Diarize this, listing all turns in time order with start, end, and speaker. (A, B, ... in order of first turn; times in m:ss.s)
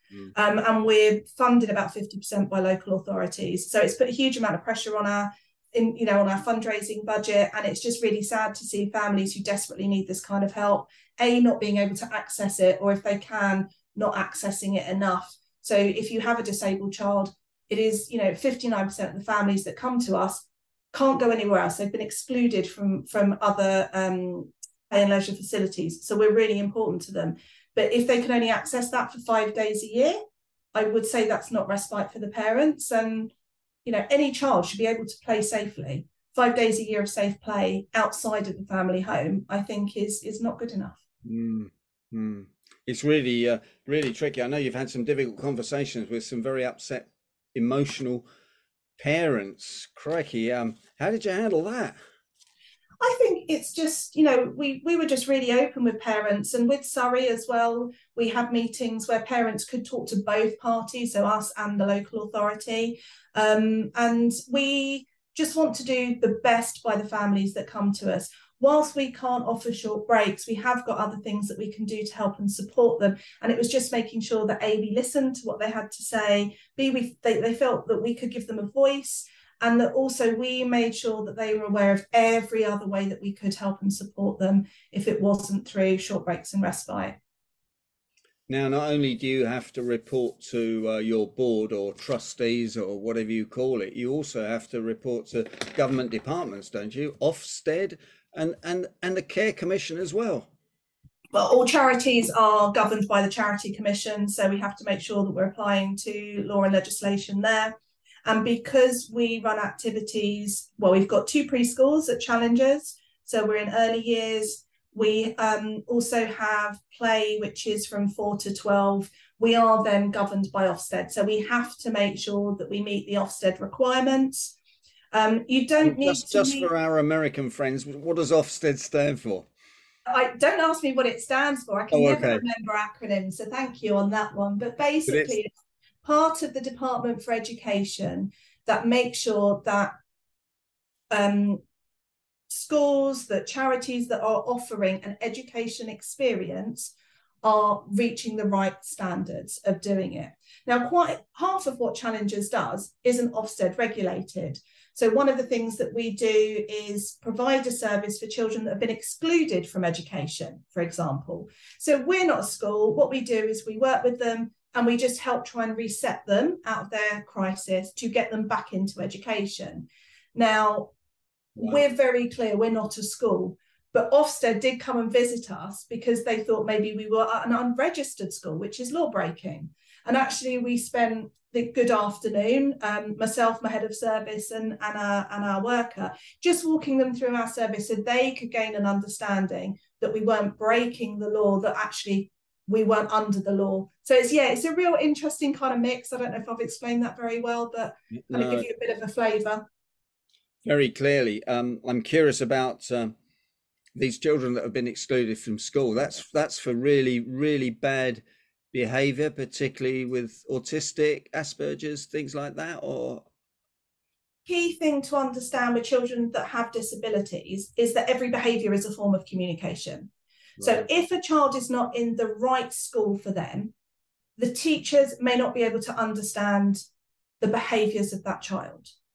0:00.3-0:30.2 A
0:30.7-0:33.3 A
0:33.8-0:41.0 A
0:41.2-0:48.2 B
0:49.0-0:52.0 B
0:53.0-1:27.2 A
1:28.5-1:40.5 B
1:41.3-2:04.5 A
2:05.1-2:06.7 A
2:05.8-2:09.5 B
2:10.0-2:15.5 A
2:11.9-2:12.4 B
2:15.1-2:15.4 B
2:16.0-2:19.9 A
2:21.1-2:21.6 A
2:22.5-2:26.9 A
2:27.4-2:50.9 A
2:51.6-3:19.6 A
3:18.1-3:18.7 B
3:20.6-3:23.1 B
3:23.9-3:33.2 B
3:34.4-3:43.7 A
3:40.6-3:40.8 B
3:44.4-3:46.8 A
3:47.4-3:48.9 A